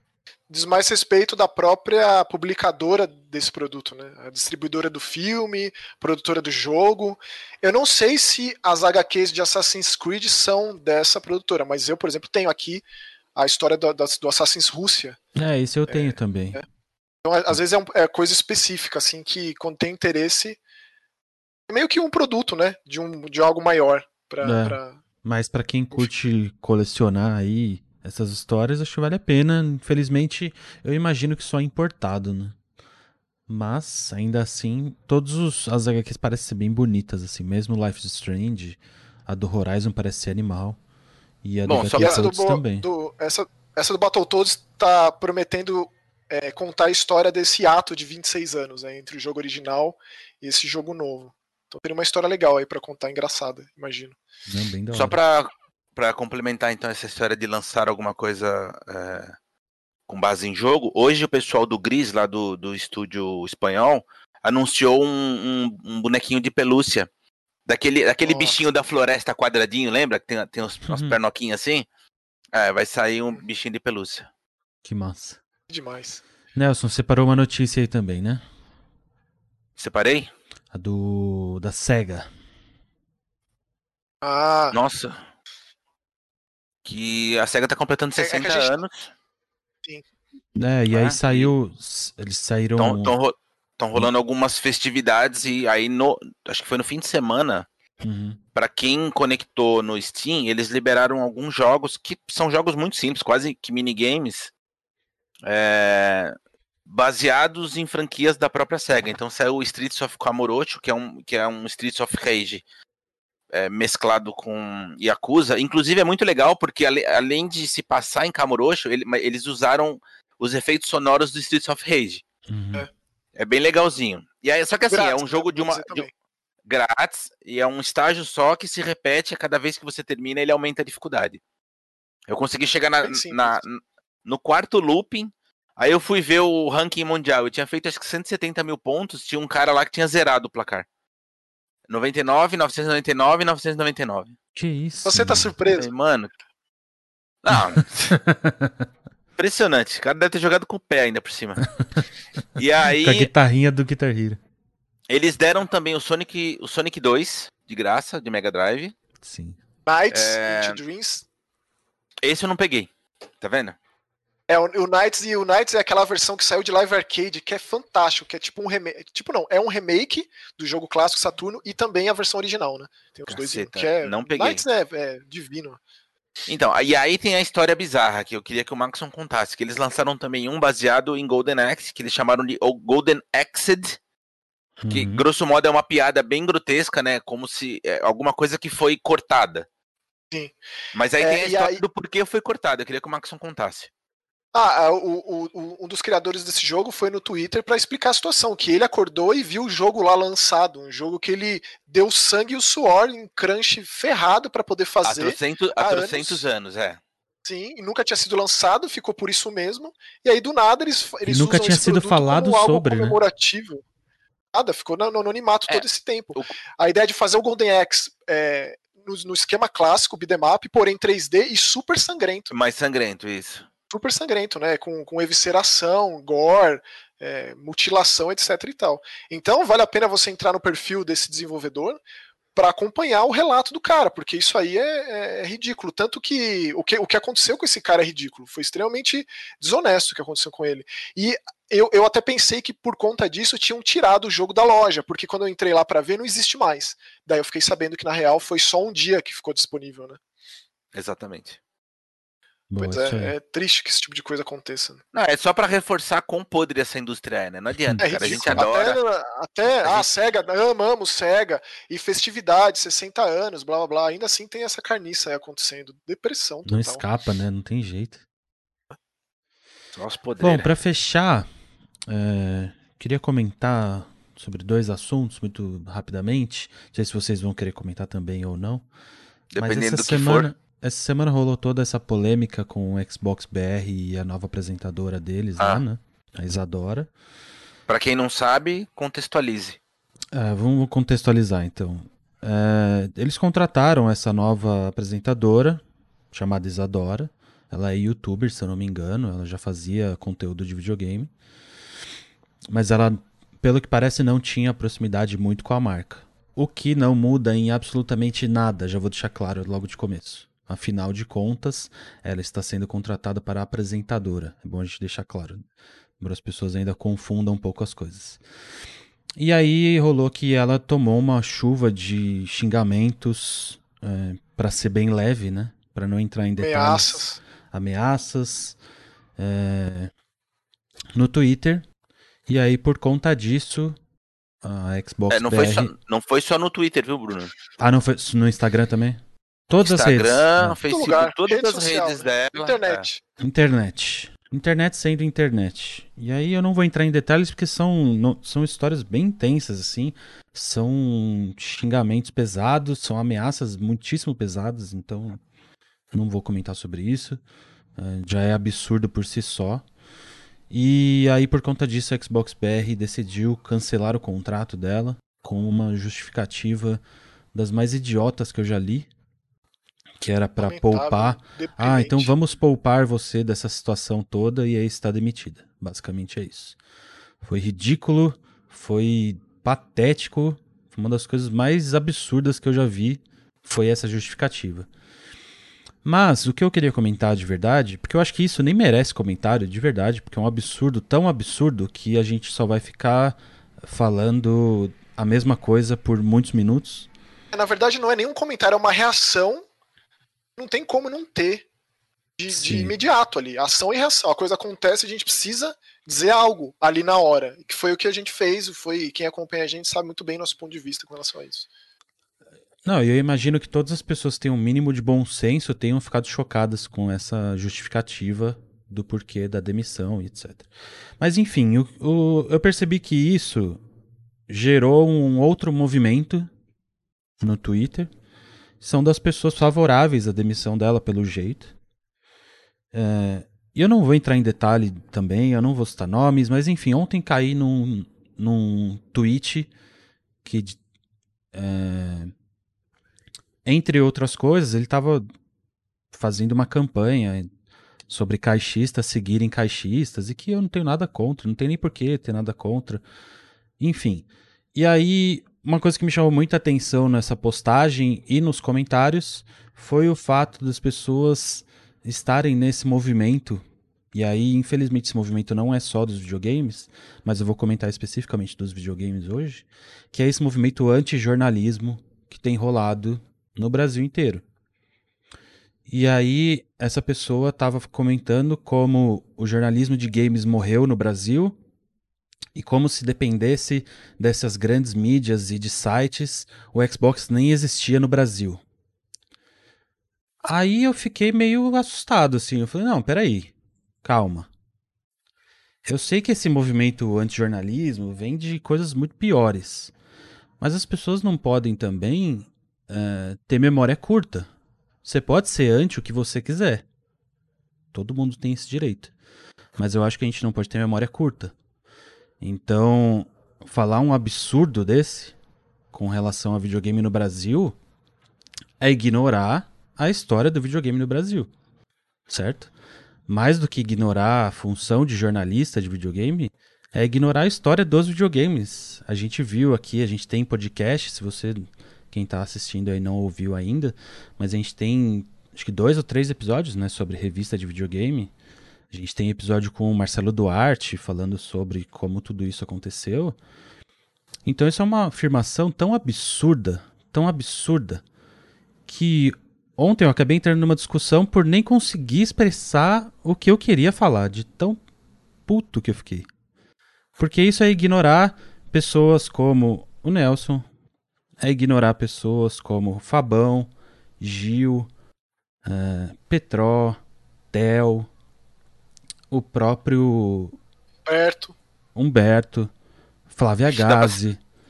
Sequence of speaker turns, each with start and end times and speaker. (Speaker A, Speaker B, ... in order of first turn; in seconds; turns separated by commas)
Speaker A: 0.5-15.2, Speaker B: 15.3-16.6, Speaker A: 15.9-16.6, Speaker A: 17.2-20.6, Speaker A: 21.7-25.0, Speaker B: 24.4-32.5, Speaker B: 33.5-40.8, Speaker B: 41.4-42.9, Speaker C: 41.6-42.2, Speaker A: 42.0-54.2, Speaker B: 54.5-55.2, Speaker C: 54.9-59.3, Speaker C: 60.1-67.1, Speaker C: 67.7-71.8, Speaker A: 68.2-68.6, Speaker B: 70.8-71.1, Speaker C: 72.5-74.3, Speaker B: 74.8-75.4, Speaker A: 75.7-76.2, Speaker B: 76.5-78.4, Speaker C: 79.8-80.3, Speaker B: 80.7-82.3, Speaker A: 84.2-84.8, Speaker C: 84.7-85.2, Speaker C: 86.8-89.1, Speaker A: 88.2-88.8, Speaker B: 90.5-93.1, Speaker C: 90.9-91.5, Speaker C: 92.8-97.7, Speaker B: 98.0-98.4, Speaker C: 98.5-104.5, Speaker C: 105.4-106.3, Speaker C: 106.9-112.6, Speaker C: 113.5-122.2, Speaker B: 122.5-122.9, Speaker C: 123.3-126.1, Speaker A: 124.9-126.1, Speaker C: 126.7-131.4, Speaker C: 132.3-140.8, Speaker A: 133.0-133.6, Speaker C: 141.9-144.4, Speaker B: 144.6-145.5, Speaker A: 145.0-145.9, Speaker C: 145.7-146.3, Speaker C: 147.4-148.1, Speaker B: 147.5-148.8, Speaker C: 149.4-151.6, Speaker C: 152.6-153.3, Speaker B: 152.9-154.4, Speaker C: 155.1-158.9, Speaker B: 159.2-159.6, Speaker A: 159.8-161.3, Speaker C: 160.1-160.8, Speaker C: 162.2-162.9, Speaker C: 163.4-163.8, Speaker A: 164.5-175.8, Speaker C: 173.3-174.6, Speaker C: 176.5-184.0, Speaker B: 184.8-185.2, Speaker C: 184.9-189.7, Speaker A: 190.3-190.6, Speaker C: 190.9-193.9, Speaker A: 191.2-191.8, Speaker A: 194.5-206.5, Speaker C: 205.0-207.0, Speaker A: 207.4-213.8, Speaker B: 211.2-213.2, Speaker A: 214.5-222.5, Speaker C: 215.7-216.6, Speaker C: 222.5-223.7, Speaker A: 223.9-232.0, Speaker A: 232.5-250.2, Speaker C: 250.9-251.6, Speaker B: 252.7-253.3, Speaker A: 252.8-255.0, Speaker C: 255.1-259.0, Speaker B: 257.8-258.6, Speaker A: 258.0-267.0, Speaker C: 259.8-260.1, Speaker B: 266.6-268.2, Speaker C: 269.9-270.7, Speaker B: 270.4-271.5, Speaker B: 272.1-278.9, Speaker C: 279.5-280.5, Speaker B: 279.6-287.1, Speaker C: 287.9-289.8, Speaker B: 290.3-301.3, Speaker B: 302.7-315.6, Speaker B: 316.2-318.4, Speaker B: 319.4-328.8, Speaker A: 326.6-327.4, Speaker B: 329.4-330.1, Speaker B: 331.1-331.9, Speaker B: 332.5-334.0, Speaker B: 334.6-335.9, Speaker C: 335.3-337.5, Speaker B: 337.8-340.8, Speaker C: 339.8-343.0, Speaker A: 340.9-343.2, Speaker B: 343.4-355.4, Speaker B: 356.1-357.4, Speaker B: 357.9-359.8, Speaker B: 360.7-367.0, Speaker B: 367.5-369.1, Speaker B: 370.2-376.8, Speaker A: 370.6-372.3, Speaker B: 377.4-384.9, Speaker B: 386.0-397.1, Speaker A: 397.5-399.6, Speaker A: 400.6-401.6, Speaker A: 402.4-411.7, Speaker B: 402.5-402.9, Speaker B: 412.8-420.7, Speaker B: 421.2-423.8, Speaker B: 424.5-426.5, Speaker B: 427.4-428.1, Speaker B: 428.8-431.7, Speaker B: 432.9-439.7, Speaker B: 440.4-440.8, Speaker B: 441.5-442.3, Speaker B: 443.6-445.2, Speaker B: 446.1-447.5, Speaker B: 448.1-453.0, Speaker B: 453.8-474.4, Speaker B: 475.9-481.6, Speaker B: 482.5-488.6, Speaker B: 490.4-493.5, Speaker B: 494.0-494.5, Speaker B: 495.9-499.9, Speaker B: 500.6-504.5, Speaker B: 505.0-506.8, Speaker B: 507.9-509.1, Speaker B: 509.8-511.5, Speaker B: 512.4-515.4, Speaker B: 515.9-517.8, Speaker B: 518.8-521.5, Speaker B: 522.3-522.7, Speaker B: 523.3-538.3, Speaker B: 538.9-543.4, Speaker B: 544.4-548.0, Speaker B: 548.9-554.8, Speaker B: 555.5-556.3, Speaker B: 557.2-560.7, Speaker B: 561.4-564.9, Speaker B: 565.6-567.0, Speaker B: 567.5-568.1, Speaker B: 569.3-570.5, Speaker A: 571.0-571.5, Speaker B: 571.9-572.7, Speaker B: 573.3-574.4, Speaker C: 573.7-574.2